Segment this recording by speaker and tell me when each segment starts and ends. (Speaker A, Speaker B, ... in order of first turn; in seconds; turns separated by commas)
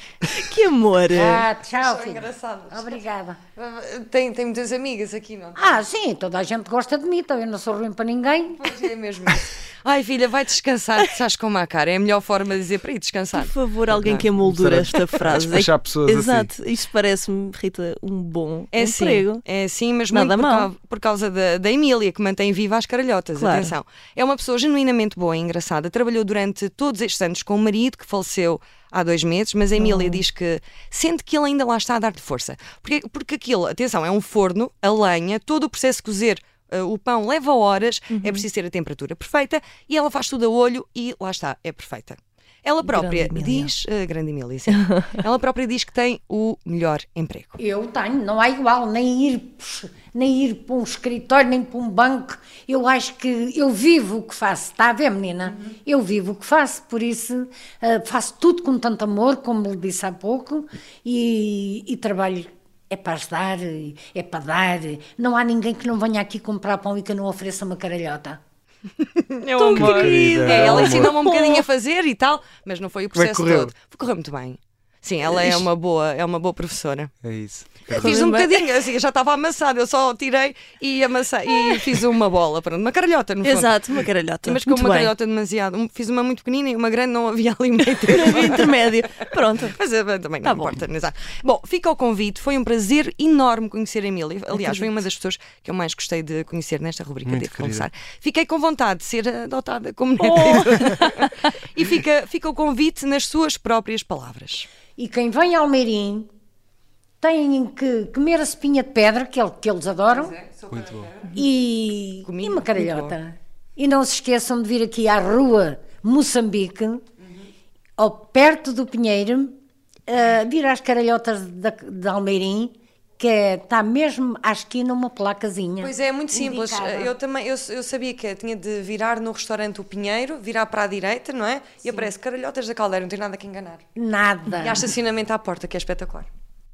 Speaker A: 0.3-1.4, Speaker B: 1.1-3.4, Speaker C: 1.8-3.0, Speaker C: 3.6-5.8, Speaker B: 5.6-8.7, Speaker C: 8.6-14.3, Speaker A: 13.3-19.4, Speaker D: 14.2-16.5, Speaker C: 18.7-47.6, Speaker A: 20.1-20.7, Speaker A: 23.4-23.8, Speaker A: 29.8-30.2, Speaker A: 38.1-38.4, Speaker A: 42.8-43.7, Speaker B: 47.6-68.4, Speaker C: 69.0-77.1, Speaker A: 69.6-71.7, Speaker D: 69.8-71.1, Speaker D: 73.1-73.7, Speaker A: 75.3-75.6, Speaker D: 77.2-78.2, Speaker C: 77.9-88.8, Speaker A: 77.9-78.7, Speaker A: 83.4-85.1, Speaker A: 87.8-89.8, Speaker C: 89.6-104.7, Speaker A: 90.4-90.8, Speaker A: 94.6-94.9, Speaker D: 97.2-97.9, Speaker A: 100.2-101.0, Speaker B: 105.0-106.3, Speaker B: 107.2-110.4, Speaker C: 110.3-111.3, Speaker D: 110.7-111.1, Speaker B: 111.3-117.0, Speaker C: 112.2-113.2, Speaker B: 118.0-119.5, Speaker B: 120.1-127.1, Speaker C: 125.8-133.8, Speaker B: 134.0-134.9, Speaker C: 134.5-136.3